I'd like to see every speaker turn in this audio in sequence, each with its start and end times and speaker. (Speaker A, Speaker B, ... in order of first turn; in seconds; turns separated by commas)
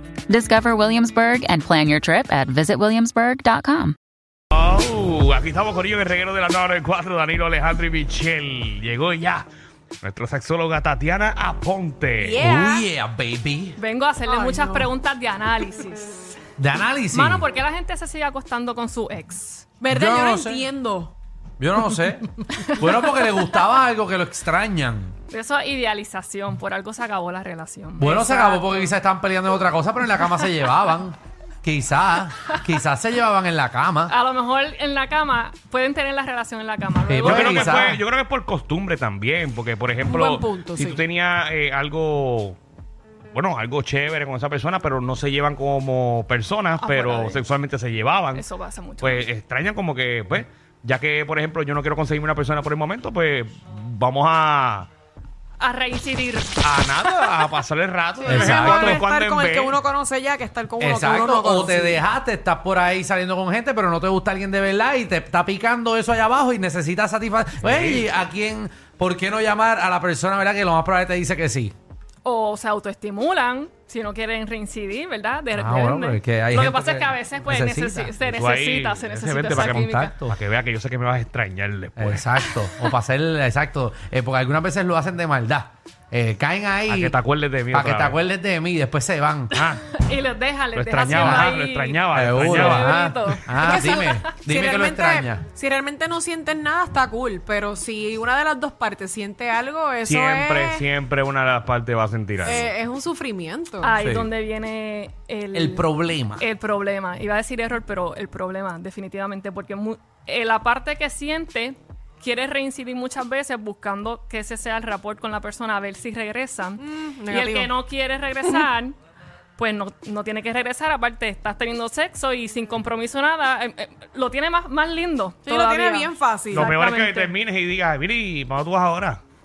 Speaker A: 0.3-4.0, Speaker B: 4.5-9.5, Speaker B: 10.0-12.4, Speaker C: 12.2-12.9, Speaker D: 12.4-13.8, Speaker E: 13.8-16.4, Speaker C: 14.3-14.9, Speaker D: 16.6-17.5, Speaker E: 17.1-19.7, Speaker C: 19.8-21.1, Speaker D: 19.9-20.6, Speaker D: 21.6-25.1, Speaker E: 25.3-28.9, Speaker D: 28.0-34.1, Speaker E: 34.1-38.0, Speaker D: 37.1-38.0, Speaker B: 37.2-42.6, Speaker C: 40.0-41.0, Speaker B: 43.3-48.5, Speaker E: 46.8-47.4, Speaker E: 48.3-49.3, Speaker B: 49.0-54.9, Speaker E: 55.6-56.6, Speaker B: 56.6-59.8, Speaker C: 58.2-62.0, Speaker D: 58.3-59.0, Speaker D: 60.8-71.7, Speaker B: 67.6-68.0, Speaker E: 72.2-80.2, Speaker D: 75.5-78.1, Speaker B: 78.2-82.3, Speaker D: 79.5-80.4, Speaker D: 82.0-87.2, Speaker B: 86.9-88.2, Speaker D: 87.7-89.5, Speaker B: 89.5-89.8, Speaker E: 89.8-94.2, Speaker B: 90.8-92.9, Speaker D: 91.1-91.5, Speaker D: 92.1-95.4, Speaker C: 93.6-100.9, Speaker B: 100.0-102.7, Speaker C: 102.4-104.0, Speaker E: 103.8-119.0, Speaker D: 104.0-104.3, Speaker D: 105.5-106.5, Speaker C: 116.8-117.7, Speaker E: 119.6-127.3, Speaker C: 125.5-126.7, Speaker B: 126.5-129.2